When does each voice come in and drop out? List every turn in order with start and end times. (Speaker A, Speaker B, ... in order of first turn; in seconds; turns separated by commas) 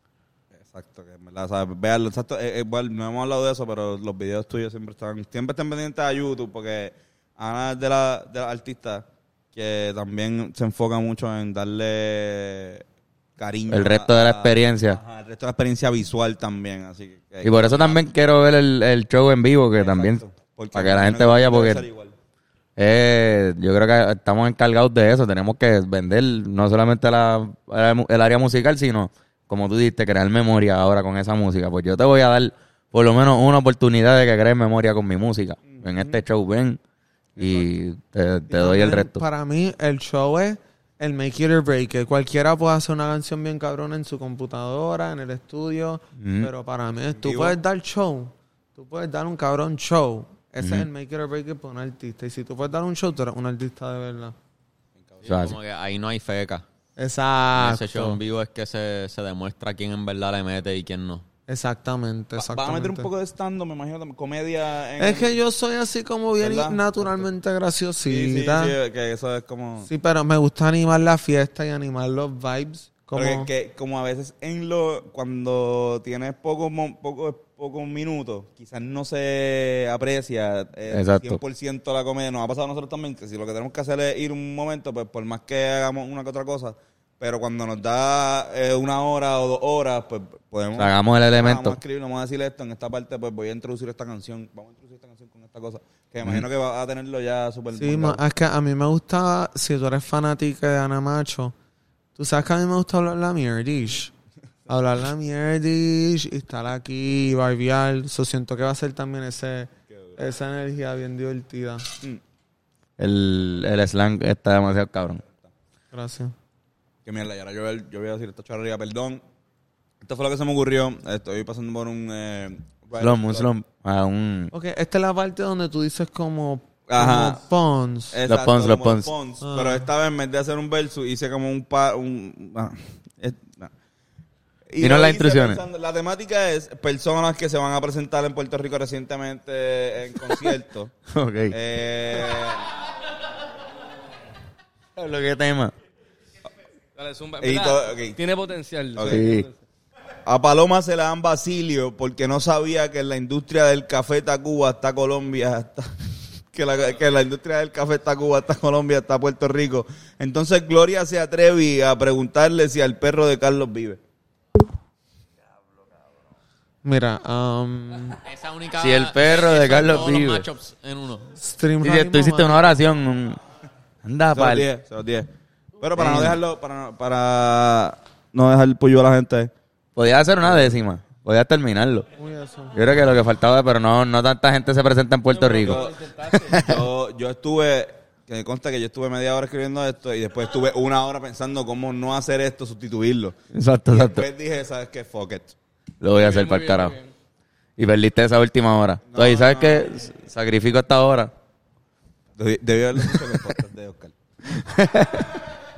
Speaker A: 0.5-12.8, Speaker A: 13.4-18.0, Speaker B: 13.7-15.0, Speaker B: 17.4-20.2, Speaker A: 19.8-22.1, Speaker B: 20.7-21.9, Speaker B: 22.8-36.8, Speaker A: 35.7-36.2, Speaker B: 37.4-39.2, Speaker A: 37.4-37.7, Speaker C: 38.5-54.4, Speaker B: 46.2-46.5, Speaker A: 47.2-47.6, Speaker B: 50.6-50.9, Speaker A: 55.0-55.4, Speaker D: 55.2-56.6, Speaker B: 55.3-55.6, Speaker C: 57.0-58.2, Speaker D: 57.6-61.2, Speaker C: 61.5-63.1, Speaker A: 62.4-65.3, Speaker C: 65.0-68.7, Speaker A: 66.4-67.1, Speaker A: 68.1-69.9, Speaker C: 69.8-73.5, Speaker A: 73.2-98.2, Speaker B: 80.9-81.4, Speaker B: 90.8-91.8, Speaker C: 97.7-101.5, Speaker C: 102.2-104.1, Speaker C: 104.7-112.0, Speaker A: 109.9-110.2, Speaker B: 113.0-115.2, Speaker C: 115.9-116.3, Speaker A: 117.0-119.2, Speaker A: 120.0-123.5, Speaker B: 123.0-124.5, Speaker C: 124.5-128.2, Speaker A: 126.9-127.4, Speaker A: 128.1-133.7, Speaker B: 128.3-129.1, Speaker C: 129.4-129.9, Speaker A: 134.7-140.9, Speaker B: 134.8-135.6, Speaker B: 141.1-141.6, Speaker A: 141.5-142.7, Speaker B: 145.0-145.7, Speaker E: 147.0-149.5, Speaker A: 147.4-148.2, Speaker A: 149.0-149.3, Speaker B: 149.0-149.5, Speaker A: 150.2-164.0, Speaker C: 166.8-168.2, Speaker D: 168.2-171.3, Speaker B: 168.8-170.5, Speaker C: 171.4-172.7, Speaker B: 171.8-173.4, Speaker B: 174.0-174.7, Speaker A: 174.3-179.5, Speaker B: 176.0-176.4, Speaker B: 180.0-182.1, Speaker A: 180.4-180.8, Speaker C: 182.2-182.8, Speaker B: 182.7-186.8, Speaker E: 185.3-186.5, Speaker A: 185.6-186.0, Speaker A: 186.5-193.4, Speaker B: 193.5-194.3, Speaker A: 193.9-195.6, Speaker B: 196.0-196.9, Speaker E: 196.1-197.1, Speaker B: 197.8-201.3, Speaker A: 199.1-199.9, Speaker A: 202.4-204.2, Speaker B: 203.1-203.5, Speaker B: 204.5-205.4